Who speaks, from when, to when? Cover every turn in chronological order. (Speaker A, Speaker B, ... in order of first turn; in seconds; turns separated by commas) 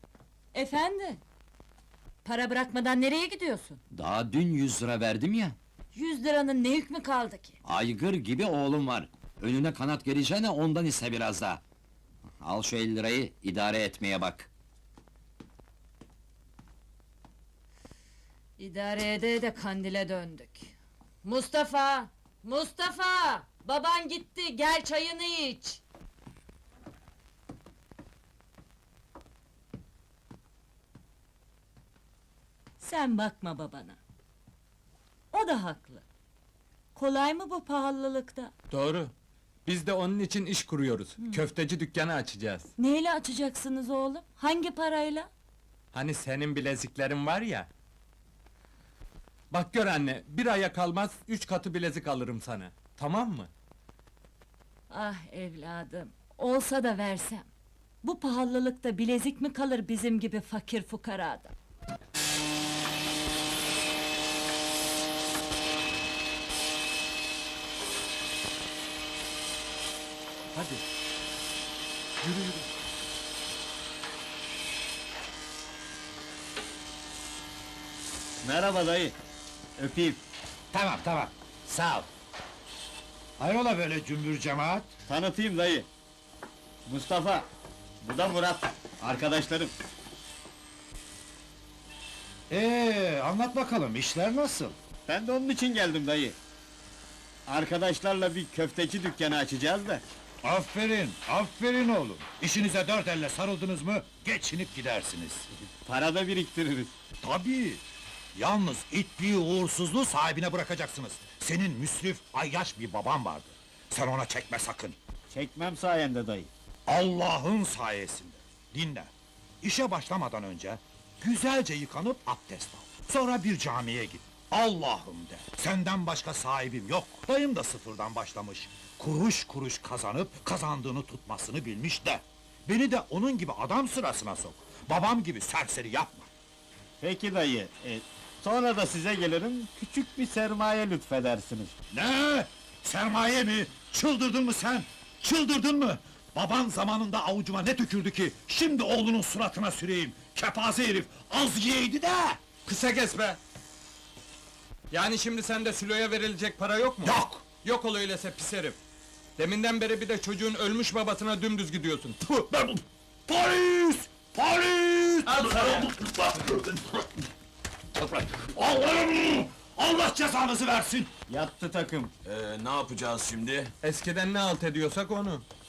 Speaker A: 0.5-1.2, Speaker A: 2.2-3.8, Speaker B: 3.9-5.6, Speaker A: 5.9-7.6, Speaker B: 7.6-11.6, Speaker B: 12.4-14.5, Speaker A: 18.6-25.8, Speaker A: 32.8-34.0, Speaker A: 35.3-36.0, Speaker A: 36.9-38.5, Speaker C: 38.7-39.1, Speaker C: 39.6-42.7, Speaker A: 41.2-41.5, Speaker A: 42.8-45.3, Speaker C: 45.9-47.7, Speaker C: 49.5-53.5, Speaker A: 54.9-57.5, Speaker A: 58.0-61.5, Speaker C: 70.5-70.8, Speaker C: 72.2-72.7, Speaker D: 78.4-79.1, Speaker D: 79.8-80.2, Speaker E: 80.7-82.1, Speaker E: 83.4-84.9, Speaker D: 85.1-85.9, Speaker D: 86.8-87.4, Speaker D: 88.0-89.7, Speaker E: 92.5-94.7, Speaker D: 95.1-96.3, Speaker D: 97.5-100.0, Speaker E: 100.4-105.4, Speaker D: 105.8-107.0, Speaker E: 107.2-107.8, Speaker E: 108.3-115.0, Speaker D: 115.3-116.5, Speaker E: 116.9-119.1, Speaker E: 119.6-136.3, Speaker D: 137.0-141.7, Speaker E: 141.9-152.4, Speaker C: 152.7-153.4, Speaker C: 154.9-158.8, Speaker E: 157.0-157.4, Speaker C: 159.4-162.2, Speaker E: 162.3-165.9, Speaker F: 165.2-166.6, Speaker E: 168.0-171.1, Speaker D: 171.3-172.1, Speaker F: 172.2-173.7, Speaker C: 173.8-175.4